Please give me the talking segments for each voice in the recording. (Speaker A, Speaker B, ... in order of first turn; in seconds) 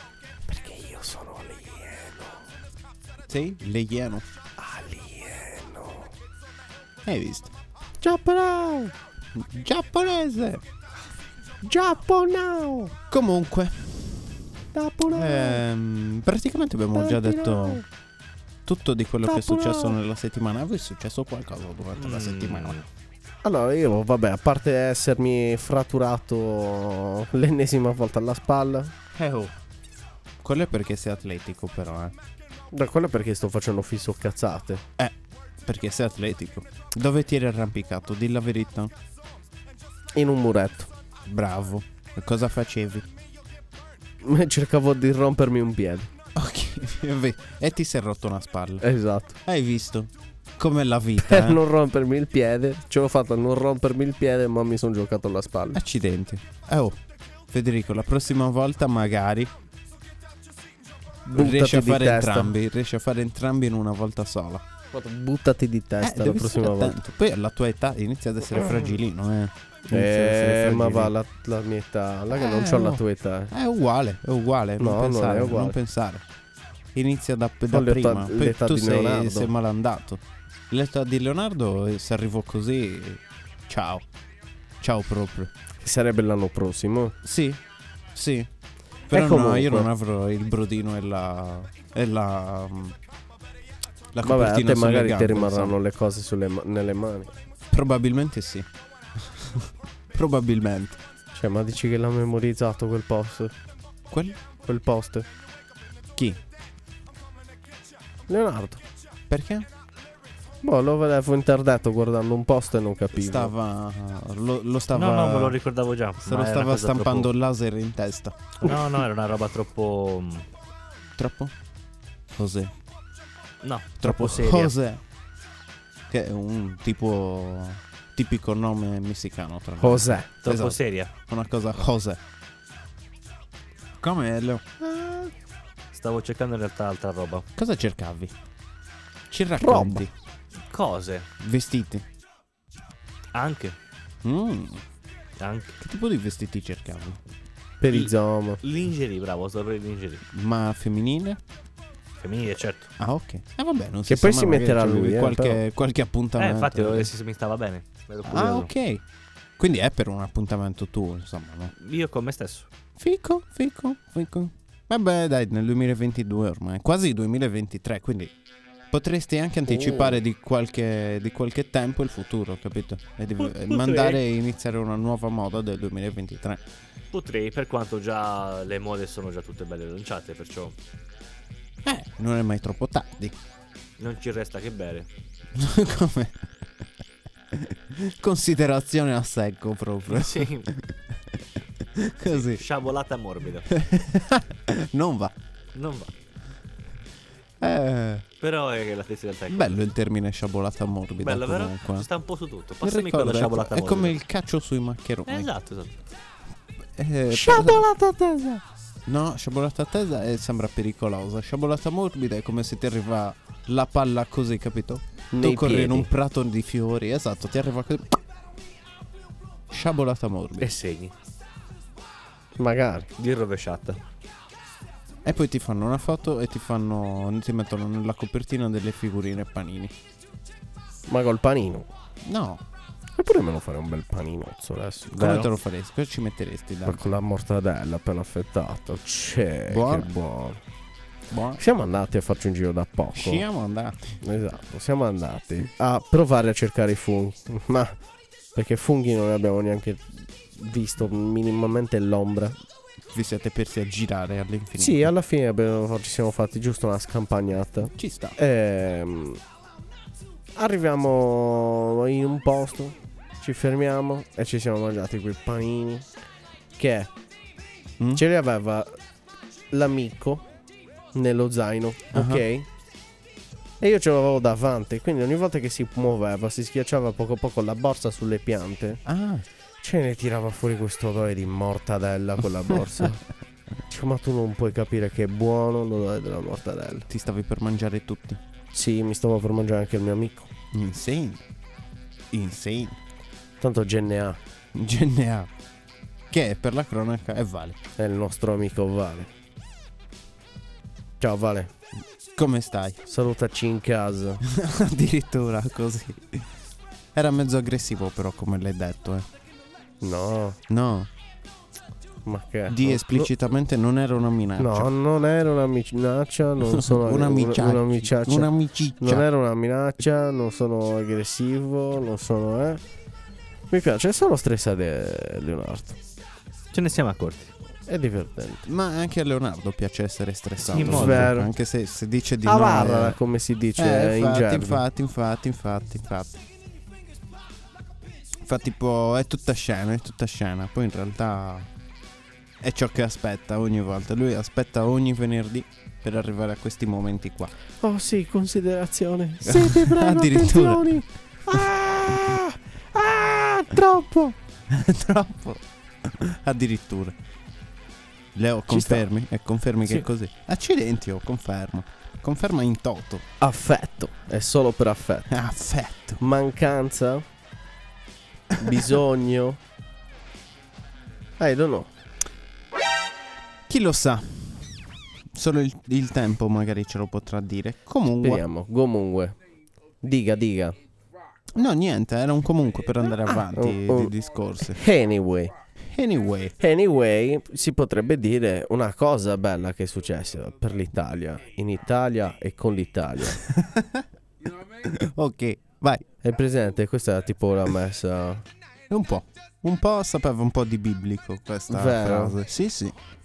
Speaker A: 0.5-2.4, 4.6-6.1, 8.0-8.9, 11.6-12.9, 14.7-15.6, 16.9-17.8, 19.2-19.9, 23.4-28.9, 32.7-34.8, 40.1-40.9, 44.2-46.1, 48.8-49.3, 51.2-55.8, 61.3-62.5, 64.9-67.0, 69.9-73.5, 74.8-75.8, 77.7-79.5, 85.8-87.2, 89.1-89.9, 94.2-97.3, 101.3-103.5, 104.6-105.3, 108.3-108.8, 110.6-113.5, 129.8-130.3, 139.6-140.0, 147.8-148.6, 154.1-155.6, 207.3-208.6, 215.3-216.1, 222.6-223.1, 231.1-231.9, 233.2-235.5, 236.8-240.6, 241.6-243.4, 244.2-247.9, 248.5-250.0, 250.6-252.6, 254.8-259.4, 260.6-266.1, 266.8-267.1, 268.1-268.9, 269.7-270.4, 271.1-272.7, 273.8-279.0, 279.8-283.2, 283.9-287.1, 288.7-290.5, 293.6-294.4, 298.0-299.3, 301.2-301.7, 303.1-304.4, 310.0-310.6, 312.2-313.3, 314.6-322.8, 323.7-326.0, 327.9-328.6, 330.8-331.5, 332.4-334.8, 347.8-354.4, 358.7-359.0, 363.4-365.3, 366.2-367.2, 368.6-369.6, 371.4-371.9, 378.2-379.4, 380.0-380.8, 383.3-384.1, 384.7-385.5, 386.6-393.4, 396.2-398.4, 401.7-402.4
Speaker B: 3.3-4.2, 7.0-7.5, 9.3-10.6, 13.1-14.4, 15.1-17.8, 18.6-22.8, 29.1-29.5, 30.4-32.1, 35.0-38.9, 41.2-43.1, 46.3-48.8, 49.4-51.6, 55.7-57.0, 57.5-59.5, 61.3-64.7, 66.0-71.1, 72.3-76.2, 76.9-84.0, 84.8-85.5, 87.2-87.6, 88.1-88.5, 89.1-93.0, 94.1-95.7, 97.7-101.0, 104.1-104.4, 109.3-109.7, 113.1-115.6, 116.2-118.8, 121.2-121.5, 122.3-122.7, 124.0-125.0, 126.1-132.2, 134.0-135.3, 137.6-138.3, 139.3-140.1, 141.4-142.0, 144.2-144.8, 145.8-147.2, 150.3-151.4, 153.0-157.1, 158.2-159.0, 159.6-161.7, 163.0-168.3, 168.9-176.6, 181.8-183.3, 185.5-186.4, 187.5-192.6, 193.7-195.3, 197.6-198.2, 199.5-202.1, 202.8-205.5, 206.9-207.9, 209.1-218.2, 219.7-220.7, 225.2-229.9, 232.2-232.6, 235.1-237.1, 239.7-240.1, 241.3-241.6, 243.1-244.2, 253.1-255.1, 257.9-258.4, 272.1-272.4, 279.0-279.4, 287.1-288.4, 290.7-291.4, 292.3-293.0, 294.7-295.5, 296.3-297.8, 302.3-303.0, 304.4-306.5, 307.1-309.3, 310.7-311.1, 312.7-314.9, 316.6-319.2, 328.6-333.2, 333.8-336.4, 338.4-341.7, 342.6-347.5, 349.4-352.4, 354.7-357.1, 358.3-363.2, 365.3-366.2, 368.6-368.8, 373.7-378.4, 381.5-384.8, 385.8-386.6, 393.4-394.1, 394.8-396.0, 398.9-402.9
Speaker C: 22.0-22.9, 114.9-117.3, 118.6-120.4, 123.6-124.7, 130.4-131.1, 135.9-137.4, 140.7-141.3, 143.3-143.8, 145.4-145.8, 148.6-150.2, 152.2-152.9, 156.4-158.7, 161.8-162.7, 173.4-174.2, 177.1-180.7, 184.0-185.1, 190.1-190.7, 192.2-193.7, 195.7-196.1, 198.4-199.8, 201.2-204.2, 205.3-205.9, 220.6-221.1, 223.2-224.0, 326.7-327.5, 330.7-331.3